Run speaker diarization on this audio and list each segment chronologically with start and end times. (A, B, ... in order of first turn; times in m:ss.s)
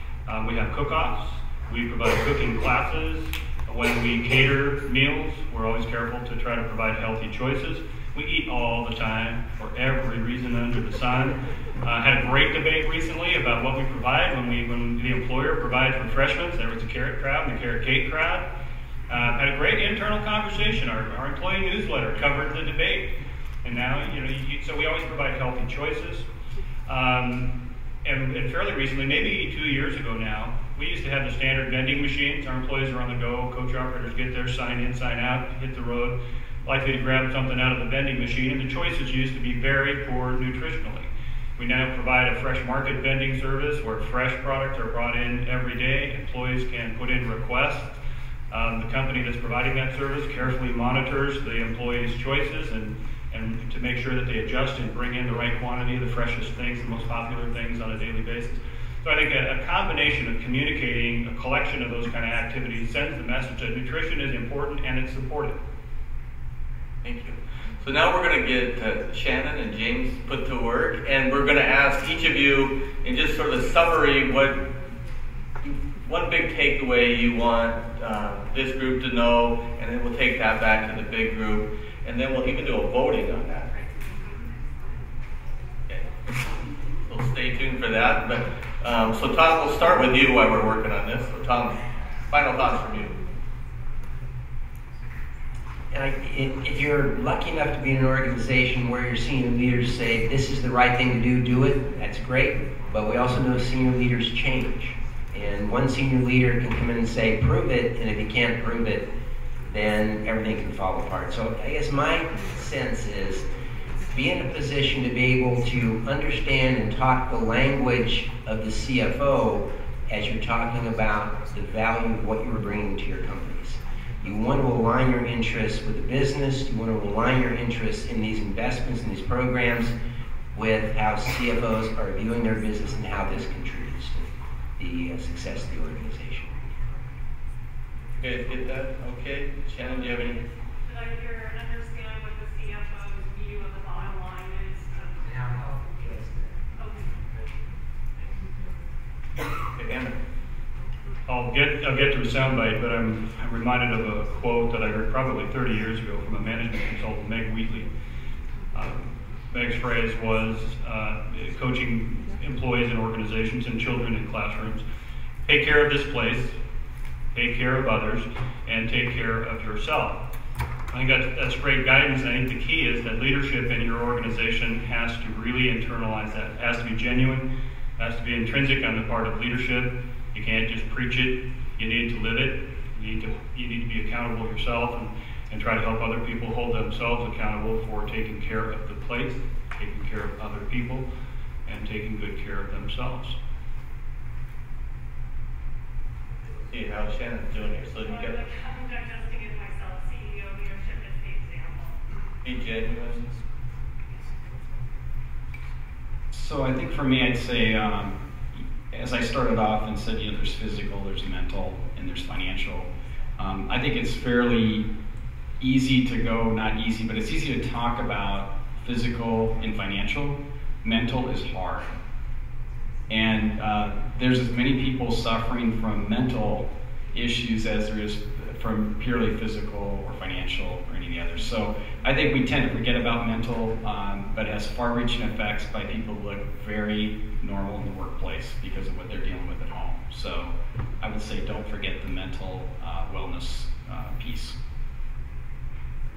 0:00.3-0:18.5 A
0:19.1-0:23.1 A
0:23.6-0:26.3 A
0:26.9-0:27.5 A
0:28.0-0:48.0 A
0:48.5-1:05.6 A
1:07.0-1:14.6 B
1:15.6-1:23.7 B
1:27.0-1:31.8 B
1:32.3-1:33.2 B
1:35.9-1:49.0 C
1:49.7-1:53.5 C
1:54.1-2:10.0 C
2:10.5-2:16.5 C
2:18.2-2:20.4 B
2:19.8-2:25.5 D
2:26.8-2:27.2 D
2:29.7-2:30.2 B
2:31.3-2:37.9 A
2:38.7-2:44.8 A
2:45.5-2:46.6 A
2:47.3-2:50.2 A
2:50.9-2:57.5 A
2:58.0-3:11.1 A
3:11.7-3:13.4 A
3:16.6-3:18.5 B
3:17.5-3:22.0 D
3:22.4-3:23.3 B
3:26.3-3:34.8 E
3:35.6-3:42.0 E
3:43.1-4:04.6 E